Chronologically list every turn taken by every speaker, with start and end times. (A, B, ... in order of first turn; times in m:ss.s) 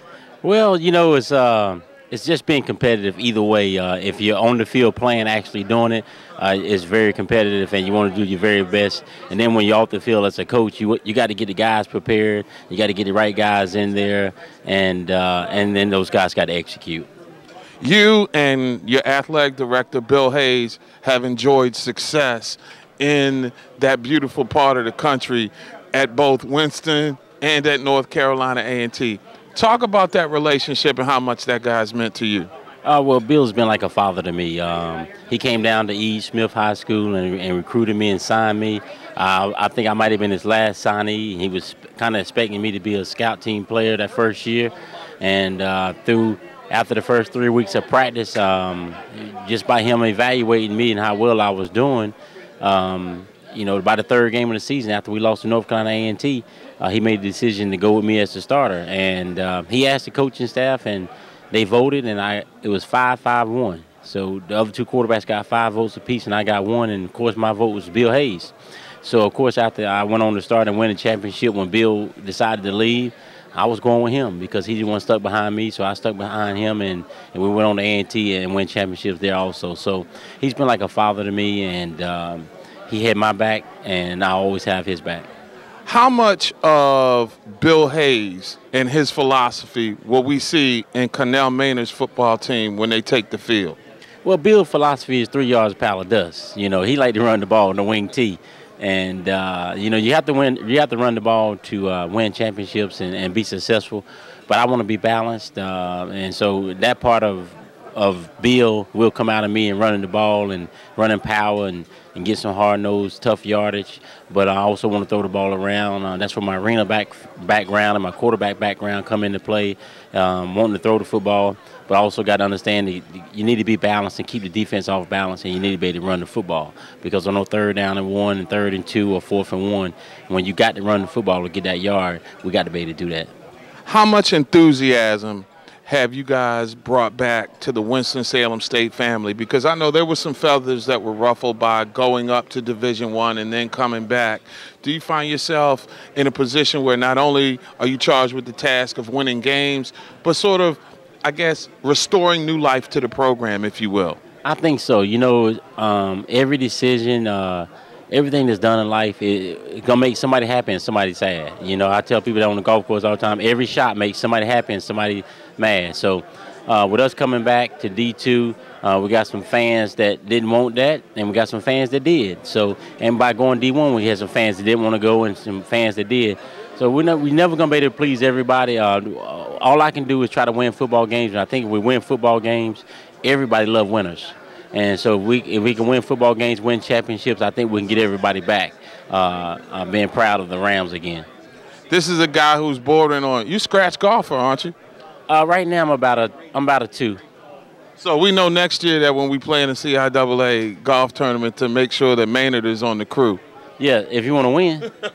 0:00.4-0:17.1 A
0:17.8-0:32.5 B
0:32.8-1:25.3 A
1:25.9-1:33.8 B
1:34.2-2:13.3 A
2:13.9-2:34.2 B
2:34.4-3:11.3 A
3:11.9-3:14.8 B
3:15.3-3:17.2 A
3:18.0-3:23.4 B
3:23.8-3:24.9 A